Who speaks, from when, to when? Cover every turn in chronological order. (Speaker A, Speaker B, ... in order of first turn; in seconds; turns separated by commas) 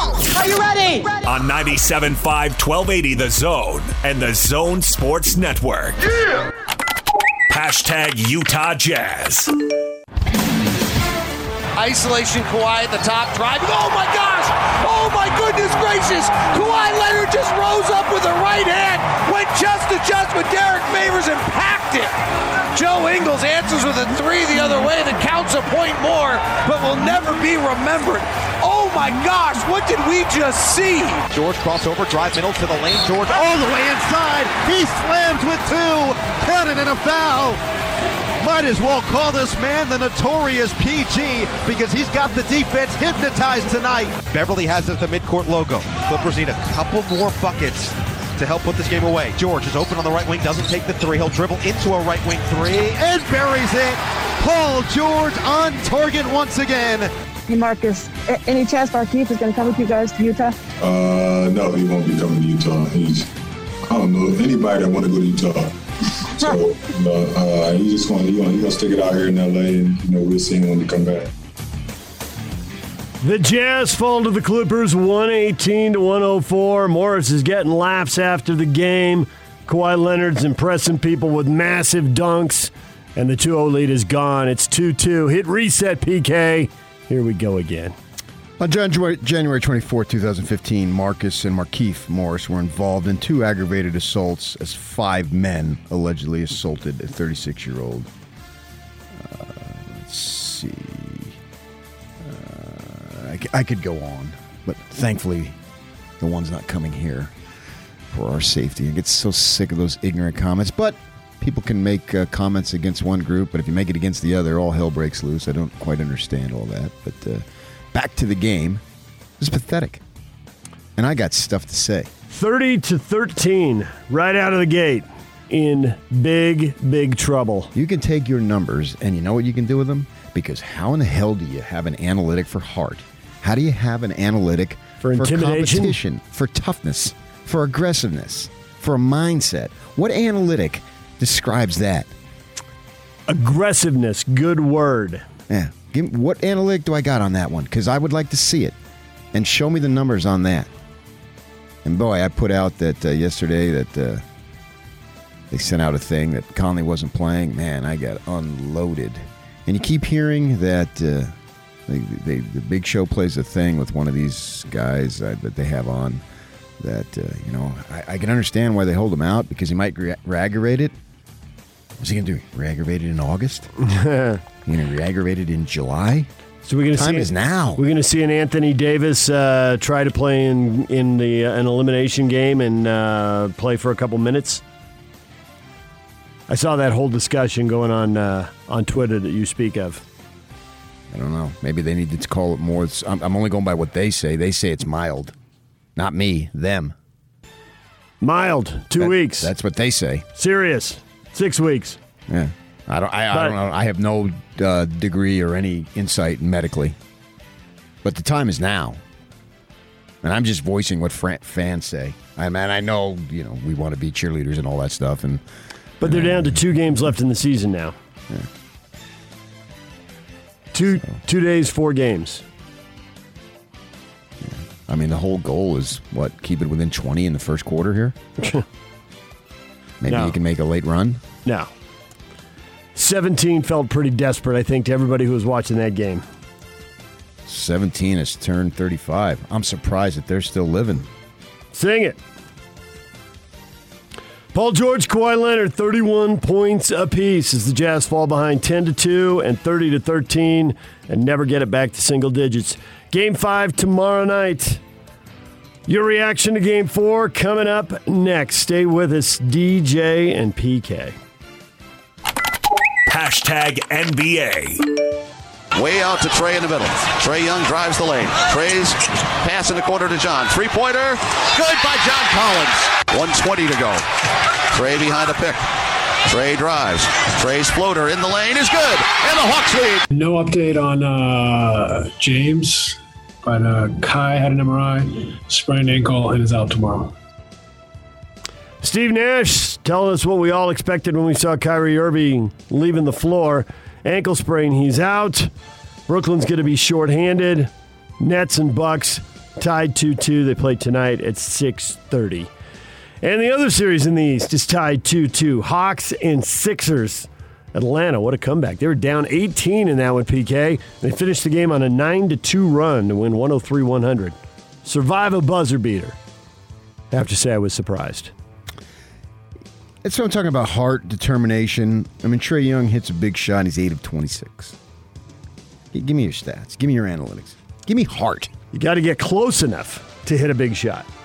Speaker A: 1.2-6.0, Speaker A: 7.5-9.5, Speaker B: 11.7-22.1, Speaker B: 22.7-31.2, Speaker C: 31.3-37.6, Speaker C: 38.4-57.1, Speaker D: 57.5-60.5, Speaker E: 60.8-63.3, Speaker E: 63.9-71.3, Speaker F: 73.2-88.0, Speaker G: 88.6-98.1, Speaker G: 99.1-101.4, Speaker G: 102.2-105.6, Speaker G: 106.2-107.3, Speaker G: 108.1-118.8, Speaker G: 119.4-120.0, Speaker G: 121.0-122.1, Speaker F: 122.3-127.7, Speaker G: 127.7-142.1, Speaker F: 135.0-136.0, Speaker F: 143.3-145.2, Speaker G: 145.5-148.8, Speaker G: 149.3-150.7, Speaker G: 151.8-154.2, Speaker G: 155.5-161.3, Speaker G: 161.9-166.2, Speaker G: 166.8-170.9, Speaker G: 172.0-173.7, Speaker F: 173.8-174.4, Speaker G: 174.6-176.3, Speaker F: 176.6-184.6, Speaker G: 176.9-177.8, Speaker F: 186.5-190.0, Speaker G: 191.1-195.3, Speaker G: 195.9-196.9, Speaker F: 198.2-199.5, Speaker G: 199.0-200.2, Speaker F: 200.3-202.0, Speaker G: 202.3-207.0, Speaker F: 203.3-203.6, Speaker G: 208.0-209.0, Speaker G: 210.2-215.4, Speaker F: 216.0-217.9, Speaker G: 216.0-216.6, Speaker F: 220.7-222.4, Speaker G: 224.4-228.2, Speaker F: 228.4-228.6, Speaker G: 230.0-231.2, Speaker F: 230.1-230.4, Speaker F: 231.4-231.7, Speaker F: 232.9-236.2, Speaker G: 237.4-241.1, Speaker F: 241.7-242.2, Speaker F: 244.5-254.8, Speaker F: 255.9-261.1, Speaker A: 263.1-264.8, Speaker H: 265.7-274.0, Speaker H: 274.7-275.6, Speaker H: 276.3-280.0, Speaker I: 280.1-287.1, Speaker F: 288.8-295.5, Speaker F: 296.1-302.5, Speaker F: 303.2-316.2, Speaker F: 317.1-318.3, Speaker G: 320.0-324.8, Speaker G: 325.9-328.5, Speaker F: 328.7-331.1